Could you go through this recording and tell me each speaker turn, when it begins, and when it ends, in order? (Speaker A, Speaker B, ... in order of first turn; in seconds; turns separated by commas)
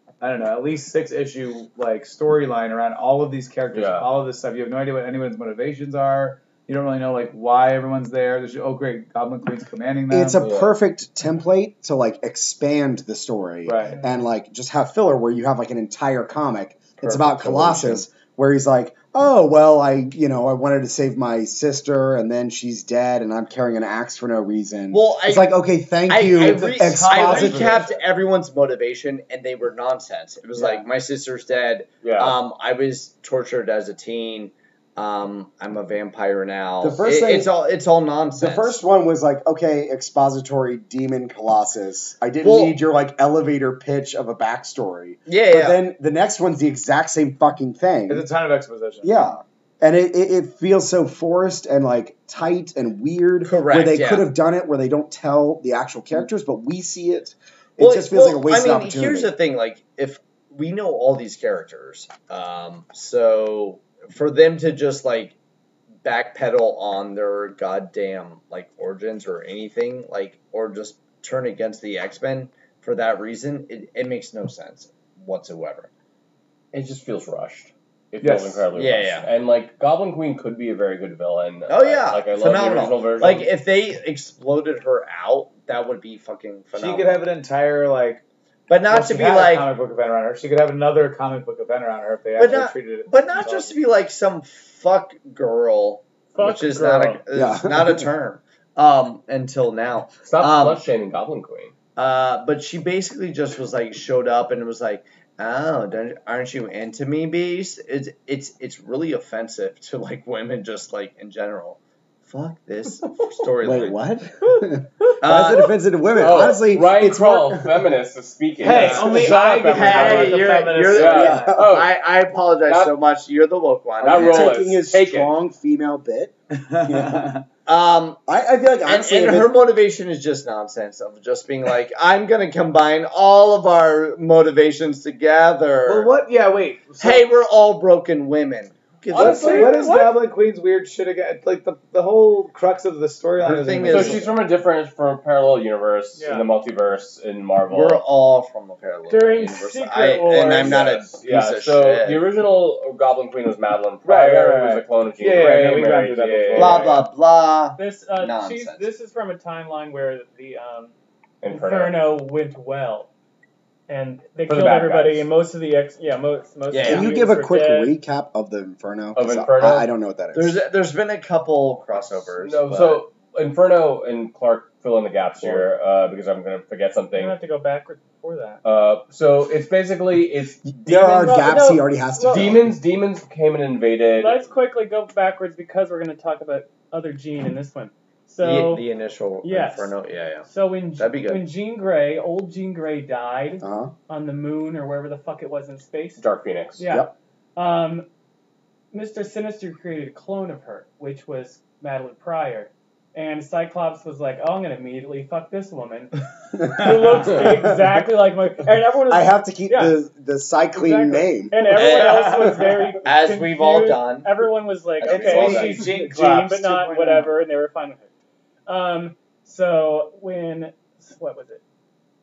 Speaker A: 0.2-10.5, Speaker B: 3.7-4.1, Speaker C: 10.1-27.9, Speaker B: 10.4-10.7, Speaker A: 13.6-14.1, Speaker D: 17.2-17.9, Speaker D: 24.9-25.5, Speaker D: 26.1-38.8, Speaker A: 26.4-28.0, Speaker A: 30.6-30.9, Speaker B: 32.0-32.4, Speaker C: 36.8-37.5, Speaker C: 38.4-48.3, Speaker D: 42.4-42.8, Speaker D: 45.3-45.8, Speaker A: 48.1-49.3, Speaker C: 49.0-59.3, Speaker D: 53.4-54.3, Speaker D: 57.8-65.3, Speaker D: 66.0-75.9, Speaker B: 76.7-83.5, Speaker A: 78.2-78.6, Speaker D: 78.8-79.3, Speaker D: 81.7-87.2, Speaker A: 86.8-88.2, Speaker D: 88.7-89.7, Speaker A: 88.9-93.8, Speaker D: 92.4-100.8, Speaker E: 96.3-97.2, Speaker C: 97.3-98.1, Speaker B: 100.3-101.7, Speaker D: 102.0-114.0, Speaker C: 113.6-117.8, Speaker D: 115.2-115.7, Speaker B: 116.2-121.9, Speaker A: 118.6-121.5, Speaker D: 118.7-124.6, Speaker C: 121.2-121.7, Speaker B: 122.7-122.9, Speaker B: 124.0-125.4, Speaker C: 124.0-127.3, Speaker A: 126.6-127.4, Speaker D: 127.7-128.2, Speaker C: 128.3-129.5, Speaker D: 128.8-136.1, Speaker A: 135.9-137.3, Speaker D: 137.0-140.0, Speaker B: 139.1-140.0, Speaker A: 139.1-144.3, Speaker E: 139.4-139.9, Speaker D: 143.4-144.3, Speaker B: 143.8-148.0, Speaker E: 146.2-146.5, Speaker D: 147.7-152.2, Speaker E: 149.1-150.9, Speaker B: 150.5-157.0, Speaker A: 154.0-157.0, Speaker D: 156.6-158.8, Speaker E: 157.8-160.9, Speaker B: 161.4-162.1, Speaker E: 161.5-163.1, Speaker E: 163.9-167.9, Speaker B: 164.5-165.3, Speaker D: 166.7-167.2, Speaker C: 166.8-170.6, Speaker B: 169.2-169.9, Speaker D: 170.3-173.0, Speaker B: 172.4-177.4, Speaker D: 175.4-175.7, Speaker E: 177.1-178.6, Speaker B: 178.6-181.3, Speaker C: 180.7-182.7, Speaker E: 180.9-182.5, Speaker B: 182.3-184.4, Speaker E: 184.1-188.8, Speaker D: 188.4-191.4, Speaker E: 189.4-189.9, Speaker E: 190.4-196.2, Speaker C: 193.6-193.9, Speaker B: 196.2-196.8, Speaker E: 196.8-198.1, Speaker E: 198.9-210.0, Speaker A: 207.0-207.3, Speaker C: 209.1-211.6, Speaker E: 210.7-218.1, Speaker D: 211.7-212.5, Speaker A: 211.7-212.9, Speaker D: 213.0-214.4, Speaker D: 215.0-215.9, Speaker A: 215.1-217.3, Speaker E: 218.7-221.6